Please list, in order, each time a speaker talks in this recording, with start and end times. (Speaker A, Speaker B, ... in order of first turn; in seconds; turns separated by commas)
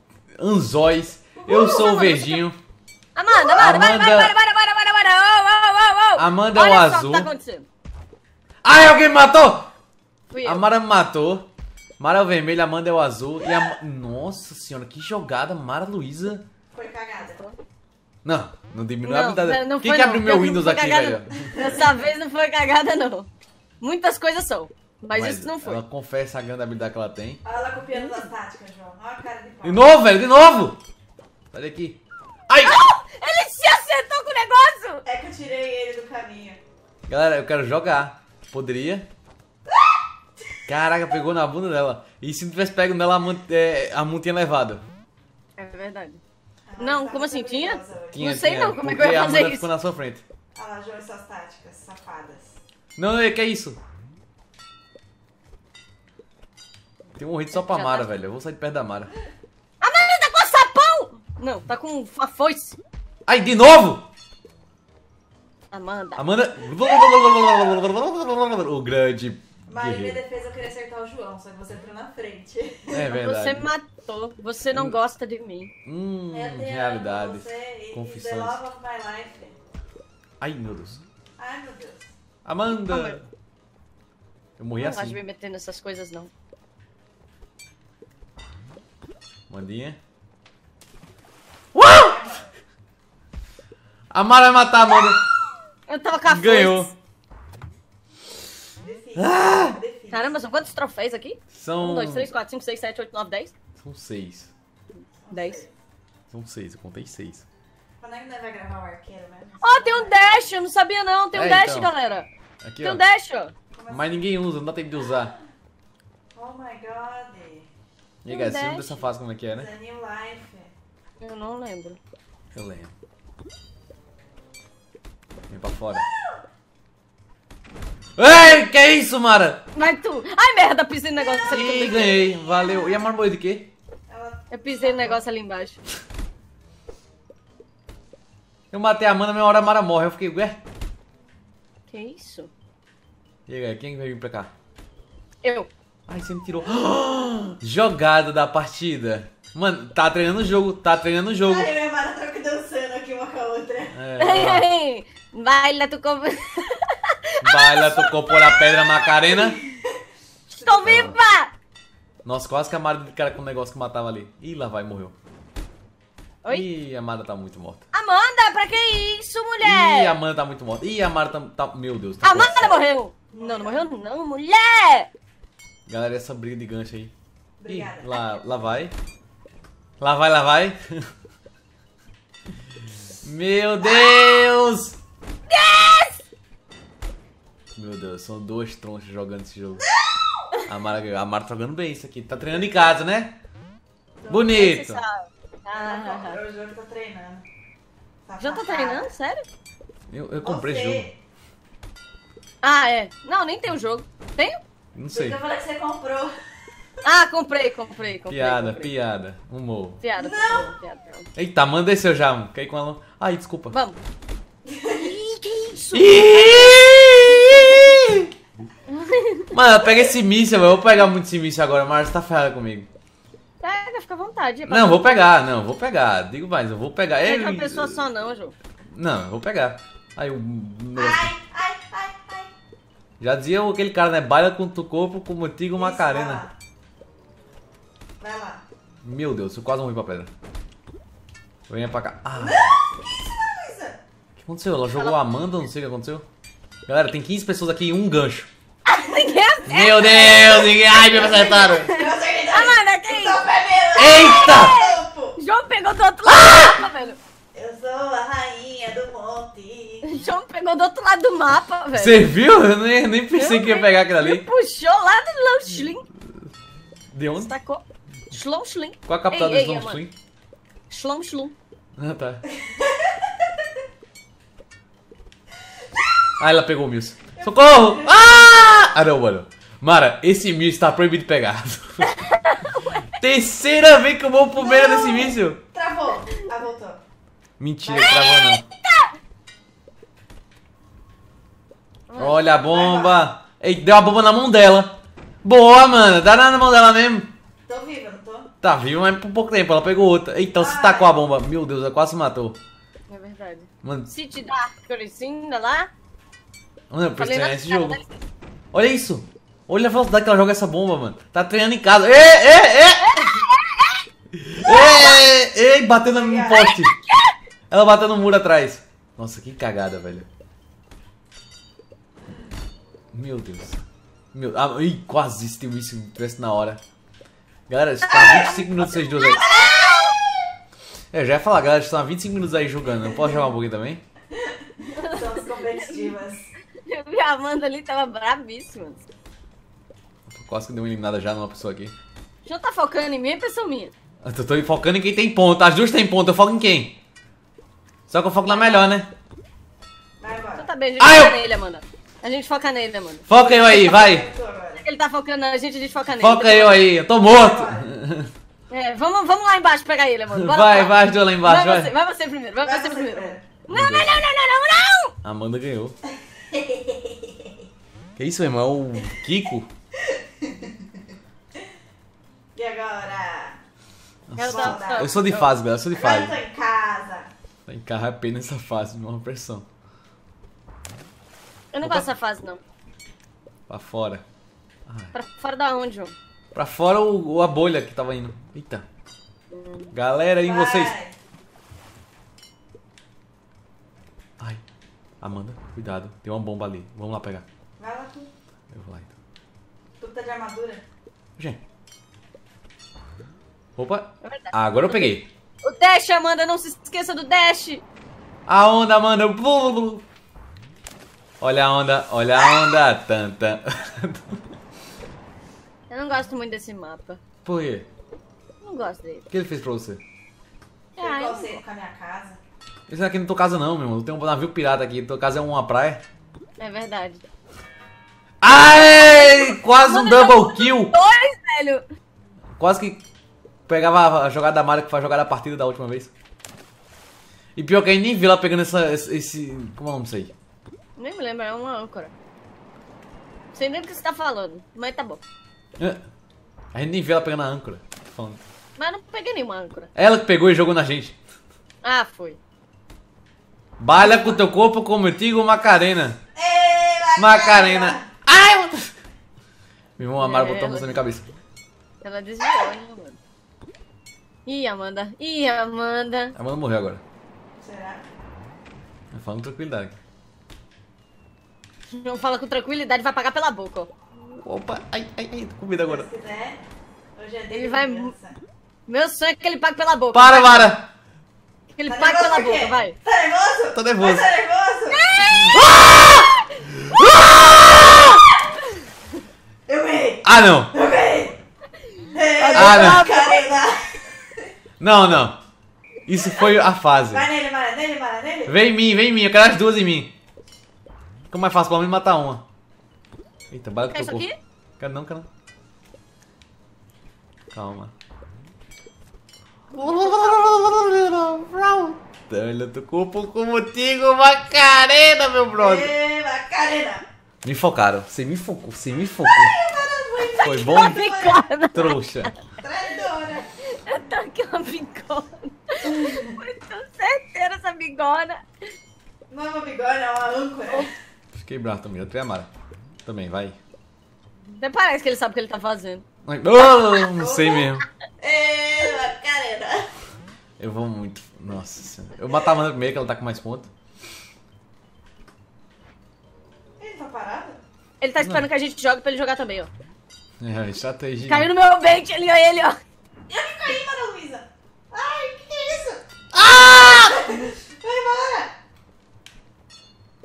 Speaker A: 0.4-2.6, Speaker B: 1.4-2.4, Speaker B: 3.1-7.7, Speaker A: 3.4-4.3, Speaker A: 6.2-7.3, Speaker A: 8.6-9.7, Speaker B: 10.3-10.6, Speaker A: 10.4-16.4, Speaker C: 16.7-17.5, Speaker A: 18.2-21.8, Speaker B: 19.0-23.3, Speaker C: 21.4-22.0, Speaker B: 23.8-25.8, Speaker A: 25.1-27.4, Speaker C: 27.4-30.0, Speaker A: 29.6-30.8, Speaker A: 31.5-32.8, Speaker B: 32.6-35.0, Speaker C: 35.0-36.6, Speaker A: 37.1-39.1, Speaker A: 40.6-44.8, Speaker B: 45.6-46.2, Speaker C: 46.6-48.2, Speaker B: 46.8-49.7, Speaker A: 48.1-50.2, Speaker C: 50.5-52.6, Speaker A: 53.0-53.8, Speaker A: 57.1-59.1, Speaker B: 57.5-58.1, Speaker B: 59.8-62.8, Speaker A: 63.3-64.0, Speaker B: 65.7-66.3, Speaker A: 66.2-70.2, Speaker C: 67.1-67.4, Speaker C: 69.7-73.0, Speaker A: 72.9-73.7, Speaker B: 72.9-75.7, Speaker A: 74.7-75.0, Speaker A: 75.8-78.6, Speaker C: 76.3-79.5, Speaker A: 80.4-81.0, Speaker C: 81.4-82.1, Speaker A: 82.4-83.3, Speaker B: 82.9-83.2, Speaker A: 84.6-85.2, Speaker B: 84.8-86.3, Speaker A: 89.5-90.0, Speaker A: 91.7-92.2, Speaker C: 91.8-92.5, Speaker A: 94.1-95.2, Speaker B: 95.9-96.9, Speaker A: 96.2-96.9, Speaker C: 98.8-100.4, Speaker A: 99.2-99.8, Speaker B: 100.1-103.5, Speaker A: 101.5-102.3, Speaker A: 103.8-104.5, Speaker C: 105.2-105.7, Speaker B: 105.3-105.6, Speaker A: 106.3-107.5, Speaker C: 108.0-110.4, Speaker B: 109.6-112.3, Speaker A: 111.3-111.9, Speaker A: 112.6-113.0, Speaker B: 112.8-113.5, Speaker C: 113.7-114.2, Speaker A: 113.9-115.3, Speaker C: 116.3-117.7, Speaker A: 118.2-119.7, Speaker B: 118.3-119.1, Speaker C: 119.5-120.7, Speaker B: 121.2-122.0, Speaker A: 122.5-122.9, Speaker A: 125.5-126.0, Speaker A: 128.2-129.6, Speaker B: 129.7-132.3, Speaker A: 131.4-133.7, Speaker C: 132.6-132.9, Speaker C: 134.1-135.2, Speaker B: 134.5-135.8, Speaker A: 138.7-140.6, Speaker B: 141.9-142.5, Speaker A: 143.5-144.5, Speaker B: 145.4-145.7, Speaker A: 146.1-151.7, Speaker C: 151.4-154.0, Speaker A: 153.9-154.7, Speaker B: 154.2-158.6, Speaker A: 157.4-159.6, Speaker C: 159.3-160.0, Speaker B: 160.5-161.5, Speaker C: 160.6-161.2, Speaker A: 160.8-161.2, Speaker A: 162.2-165.1, Speaker A: 166.5-167.8, Speaker B: 167.9-170.1, Speaker A: 169.6-172.8, Speaker B: 172.2-175.1, Speaker C: 173.3-173.9, Speaker A: 175.9-177.1, Speaker C: 177.6-178.1, Speaker A: 177.7-178.9, Speaker A: 180.0-181.1, Speaker A: 183.2-185.0, Speaker B: 185.5-186.2, Speaker A: 187.7-189.8, Speaker A: 190.7-193.4, Speaker C: 194.2-194.7, Speaker A: 194.3-195.0, Speaker B: 194.4-196.4, Speaker C: 195.7-197.4, Speaker C: 198.2-199.1, Speaker B: 198.4-199.4, Speaker A: 200.1-201.1, Speaker C: 200.4-201.1, Speaker B: 202.6-204.6, Speaker A: 204.9-205.4, Speaker C: 205.1-206.3, Speaker B: 207.0-208.9, Speaker A: 208.3-210.0, Speaker B: 210.0-211.3, Speaker C: 210.2-210.7, Speaker A: 211.3-213.7, Speaker B: 213.7-214.0, Speaker C: 214.7-215.1, Speaker B: 214.9-216.8, Speaker A: 215.9-218.3, Speaker B: 218.9-219.5, Speaker A: 219.5-222.9, Speaker B: 223.6-225.2, Speaker A: 224.7-228.0, Speaker B: 227.2-228.5, Speaker A: 228.9-231.3, Speaker C: 230.9-232.5, Speaker A: 233.2-236.4, Speaker C: 235.7-236.5, Speaker C: 238.2-238.6, Speaker A: 239.0-240.3, Speaker A: 241.7-242.7, Speaker C: 242.3-244.0, Speaker A: 244.4-246.2, Speaker A: 246.8-248.5, Speaker B: 248.8-253.4, Speaker A: 249.7-251.9, Speaker C: 250.2-255.4, Speaker A: 253.9-254.8, Speaker B: 254.0-257.2, Speaker A: 256.2-256.8, Speaker C: 257.5-260.2, Speaker B: 260.0-262.3, Speaker A: 261.9-264.5, Speaker B: 263.4-266.0, Speaker A: 267.1-267.5, Speaker B: 267.4-270.0, Speaker A: 269.1-270.1, Speaker B: 270.9-271.5, Speaker A: 272.0-272.4, Speaker C: 272.6-273.3, Speaker A: 276.4-282.1, Speaker C: 277.3-278.9, Speaker B: 282.0-283.1, Speaker A: 283.1-285.6, Speaker C: 284.6-287.0, Speaker A: 287.6-288.7, Speaker C: 287.8-288.3, Speaker B: 288.0-289.1, Speaker B: 292.1-292.4, Speaker A: 292.2-297.3, Speaker C: 292.7-293.3, Speaker C: 297.7-298.5, Speaker A: 298.6-302.6, Speaker C: 300.6-301.2, Speaker B: 303.1-305.9, Speaker A: 303.8-304.1, Speaker A: 306.9-308.0, Speaker B: 307.2-308.1, Speaker A: 308.7-313.4, Speaker B: 313.0-314.0, Speaker A: 314.3-316.9, Speaker B: 314.6-315.3, Speaker C: 316.1-316.7, Speaker B: 316.6-317.3, Speaker A: 317.7-320.3, Speaker A: 323.1-323.8, Speaker A: 324.3-326.8, Speaker A: 327.7-329.5, Speaker B: 328.1-328.7, Speaker C: 328.1-328.6, Speaker B: 329.4-330.1, Speaker C: 329.4-330.1, Speaker A: 331.1-334.0, Speaker C: 334.5-336.5, Speaker B: 334.9-335.2, Speaker B: 336.9-339.0, Speaker A: 340.3-341.9, Speaker B: 342.4-343.9, Speaker A: 344.2-347.0, Speaker A: 348.1-349.1, Speaker B: 348.4-348.9, Speaker C: 350.2-350.7, Speaker B: 350.6-353.2, Speaker A: 351.0-351.4, Speaker A: 353.3-354.2, Speaker C: 353.3-354.9, Speaker B: 354.8-356.9, Speaker A: 356.2-358.3, Speaker C: 357.1-357.9, Speaker B: 358.7-365.1, Speaker A: 360.3-361.9, Speaker C: 362.6-363.4, Speaker A: 363.7-364.1, Speaker A: 365.2-366.0, Speaker C: 366.5-367.3, Speaker A: 368.1-369.7, Speaker C: 370.1-370.7, Speaker C: 372.5-373.6, Speaker A: 374.3-376.3, Speaker B: 374.4-375.5, Speaker C: 374.4-375.1, Speaker C: 375.9-377.3, Speaker A: 377.7-379.6, Speaker B: 381.7-382.6, Speaker A: 381.8-382.1, Speaker A: 383.7-384.2, Speaker A: 384.9-385.1, Speaker B: 385.1-386.1, Speaker A: 386.5-388.8, Speaker B: 389.5-389.9, Speaker A: 389.9-390.9, Speaker C: 390.4-391.1, Speaker A: 395.2-397.4, Speaker C: 397.8-398.3, Speaker A: 398.7-399.1, Speaker C: 400.0-400.8, Speaker A: 403.8-405.3, Speaker B: 404.2-407.8, Speaker A: 408.5-410.0, Speaker A: 411.4-414.4, Speaker B: 415.9-417.2, Speaker A: 417.4-417.9, Speaker B: 418.6-419.2, Speaker A: 419.3-420.0, Speaker C: 420.9-422.4, Speaker B: 421.0-421.6, Speaker A: 422.9-426.0, Speaker B: 426.6-427.2, Speaker A: 428.4-430.9, Speaker B: 429.2-431.8, Speaker A: 432.6-433.0, Speaker A: 433.7-436.1, Speaker A: 437.6-440.3, Speaker B: 441.0-442.1, Speaker B: 443.5-445.2, Speaker A: 445.8-446.0, Speaker A: 446.7-448.4, Speaker B: 448.8-449.9, Speaker A: 449.9-451.2, Speaker B: 451.8-452.4, Speaker A: 453.8-456.2, Speaker C: 456.3-458.1, Speaker A: 457.2-458.9, Speaker A: 460.0-461.2, Speaker B: 460.2-461.0, Speaker B: 462.0-463.2, Speaker B: 464.4-466.3, Speaker A: 466.3-467.0, Speaker C: 467.6-468.0, Speaker A: 469.1-470.0, Speaker B: 471.9-473.9, Speaker A: 474.4-476.1, Speaker C: 475.8-476.6, Speaker C: 477.1-478.4, Speaker B: 477.5-478.1, Speaker B: 478.9-480.7, Speaker A: 480.1-480.9, Speaker B: 481.8-482.9, Speaker C: 481.9-485.0, Speaker A: 483.7-484.2, Speaker B: 484.9-485.7, Speaker A: 485.3-488.2, Speaker C: 489.7-491.4, Speaker A: 490.2-490.7, Speaker C: 492.1-494.4, Speaker B: 492.4-493.5, Speaker A: 492.5-493.1, Speaker A: 494.8-495.4, Speaker A: 496.1-497.2, Speaker C: 497.1-498.6, Speaker A: 498.4-500.1, Speaker A: 501.3-502.4, Speaker A: 503.5-504.3, Speaker B: 503.9-504.4, Speaker A: 504.8-505.3, Speaker A: 507.5-507.9, Speaker A: 509.7-515.9, Speaker C: 515.5-517.0, Speaker A: 517.4-519.5, Speaker C: 519.3-521.5, Speaker A: 520.4-521.0, Speaker B: 520.7-522.3, Speaker A: 521.7-522.3, Speaker C: 522.6-523.5, Speaker B: 523.8-528.4, Speaker C: 525.8-526.4, Speaker C: 529.3-530.9, Speaker A: 531.3-532.5, Speaker A: 533.0-533.6, Speaker B: 534.6-536.0, Speaker A: 536.2-537.8, Speaker C: 537.1-539.9, Speaker A: 540.6-543.7, Speaker C: 546.8-547.6, Speaker B: 548.0-549.7, Speaker A: 548.2-548.5, Speaker A: 550.4-551.5, Speaker B: 551.3-552.8, Speaker C: 553.3-556.0, Speaker A: 556.3-557.2, Speaker C: 556.8-558.5